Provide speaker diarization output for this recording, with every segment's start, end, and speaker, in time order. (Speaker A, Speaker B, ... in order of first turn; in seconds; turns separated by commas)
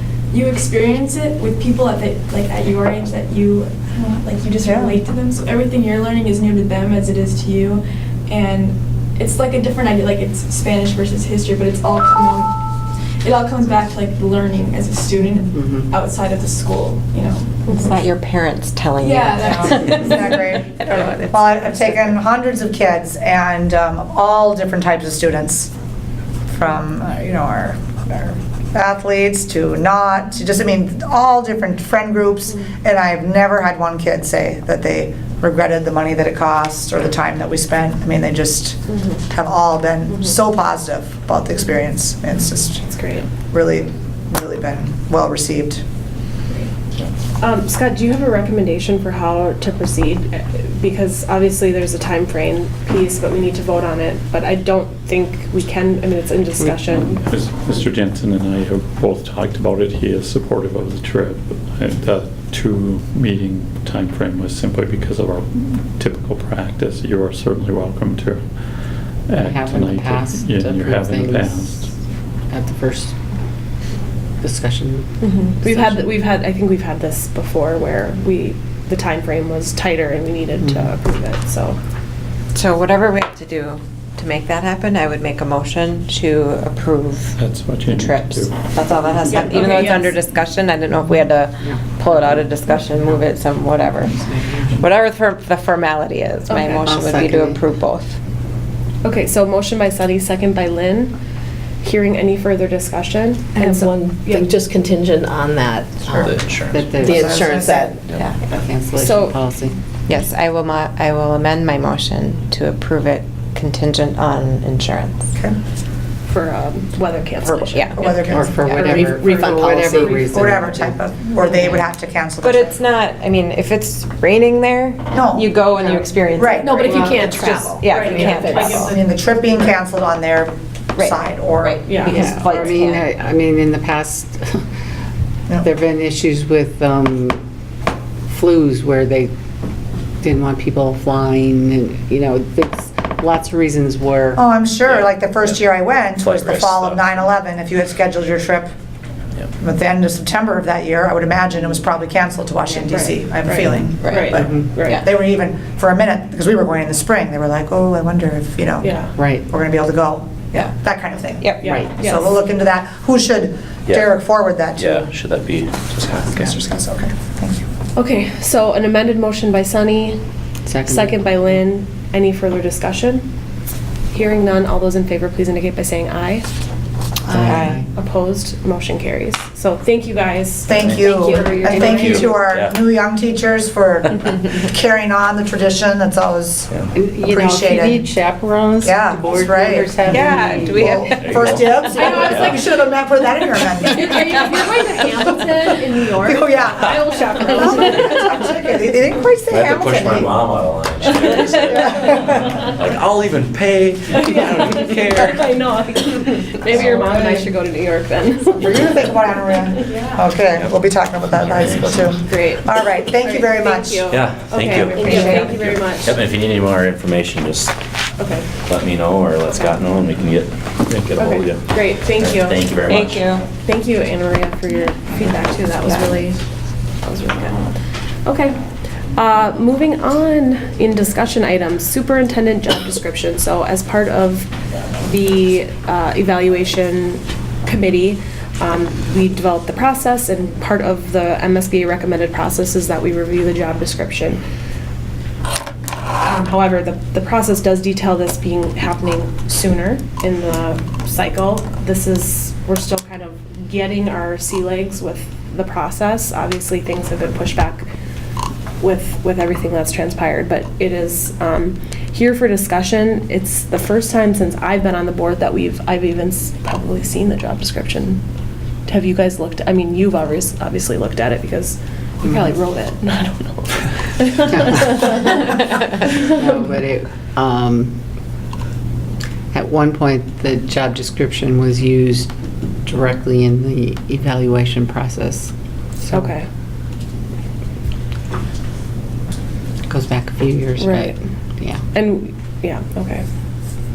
Speaker A: 0.3-12.7, Speaker B: 4.6-5.0, Speaker A: 13.2-18.1, Speaker C: 17.8-19.9, Speaker A: 19.0-20.5, Speaker B: 19.4-25.7, Speaker B: 26.5-42.8, Speaker D: 42.8-43.3, Speaker B: 43.5-45.8, Speaker D: 47.4-57.2, Speaker E: 56.9-68.5, Speaker E: 69.3-71.9, Speaker F: 69.4-71.9, Speaker F: 72.5-73.2, Speaker F: 74.4-76.1, Speaker D: 75.2-81.8, Speaker F: 80.6-80.9, Speaker C: 82.5-87.3, Speaker E: 87.4-88.7, Speaker C: 87.9-98.2, Speaker D: 89.3-90.2, Speaker F: 91.6-92.5, Speaker F: 94.1-94.8, Speaker D: 96.5-96.9, Speaker F: 96.8-97.6, Speaker D: 99.0-101.2, Speaker D: 101.8-104.5, Speaker G: 103.6-106.3, Speaker H: 106.1-107.2, Speaker F: 106.7-107.8, Speaker G: 107.0-108.2, Speaker B: 107.0-108.0, Speaker F: 108.4-109.8, Speaker D: 109.0-109.4, Speaker C: 110.1-115.2, Speaker D: 116.3-120.0, Speaker C: 117.5-118.0, Speaker B: 118.0-119.1, Speaker F: 118.3-121.8, Speaker C: 118.6-118.9, Speaker G: 118.9-120.1, Speaker B: 120.0-122.9, Speaker C: 122.4-126.9, Speaker B: 125.1-125.6, Speaker B: 126.3-127.2, Speaker G: 126.6-129.1, Speaker D: 126.8-129.0, Speaker C: 127.7-128.9, Speaker B: 128.1-132.4, Speaker C: 131.0-133.1, Speaker D: 131.9-132.2, Speaker F: 132.2-134.6, Speaker F: 135.6-137.4, Speaker F: 138.3-139.3, Speaker F: 140.2-144.4, Speaker B: 144.4-148.7, Speaker H: 144.9-145.6, Speaker H: 146.2-147.2, Speaker B: 149.6-165.1, Speaker D: 152.9-155.0, Speaker C: 154.0-155.1, Speaker F: 154.3-154.7, Speaker D: 158.8-159.2, Speaker F: 159.2-159.5, Speaker C: 161.4-161.7, Speaker D: 161.6-162.4, Speaker F: 161.7-161.9, Speaker H: 163.9-164.2, Speaker H: 164.8-166.6, Speaker B: 166.2-167.6, Speaker D: 167.9-170.2, Speaker F: 170.7-171.2, Speaker D: 170.9-173.2, Speaker D: 174.1-176.5, Speaker F: 177.3-177.9, Speaker C: 177.3-177.8, Speaker D: 177.5-182.2, Speaker B: 180.7-188.0, Speaker H: 180.8-181.2, Speaker G: 181.1-182.4, Speaker H: 181.8-182.8, Speaker F: 186.9-191.1, Speaker B: 188.8-194.6, Speaker C: 190.0-191.4, Speaker H: 191.0-192.7, Speaker G: 193.8-198.4, Speaker B: 196.2-200.4, Speaker H: 196.8-197.1, Speaker H: 199.5-205.6, Speaker B: 201.6-202.1, Speaker D: 204.1-208.9, Speaker H: 206.7-207.0, Speaker B: 206.8-207.2, Speaker B: 208.6-214.1, Speaker D: 209.8-210.2, Speaker H: 210.5-212.2, Speaker D: 212.3-216.2, Speaker H: 214.1-217.7, Speaker C: 215.0-215.6, Speaker D: 218.2-218.5, Speaker H: 218.7-223.4, Speaker D: 219.5-219.8, Speaker D: 221.2-222.7, Speaker C: 222.9-223.4, Speaker D: 223.6-226.4, Speaker C: 225.8-226.2, Speaker D: 227.0-228.6, Speaker D: 229.2-234.5, Speaker D: 235.0-244.4, Speaker D: 246.2-257.9, Speaker D: 258.8-268.2, Speaker D: 268.9-275.5, Speaker F: 276.1-278.0, Speaker F: 279.5-282.3, Speaker F: 282.9-286.4, Speaker D: 286.1-286.4, Speaker F: 289.9-291.8, Speaker D: 290.8-291.2, Speaker D: 291.9-293.2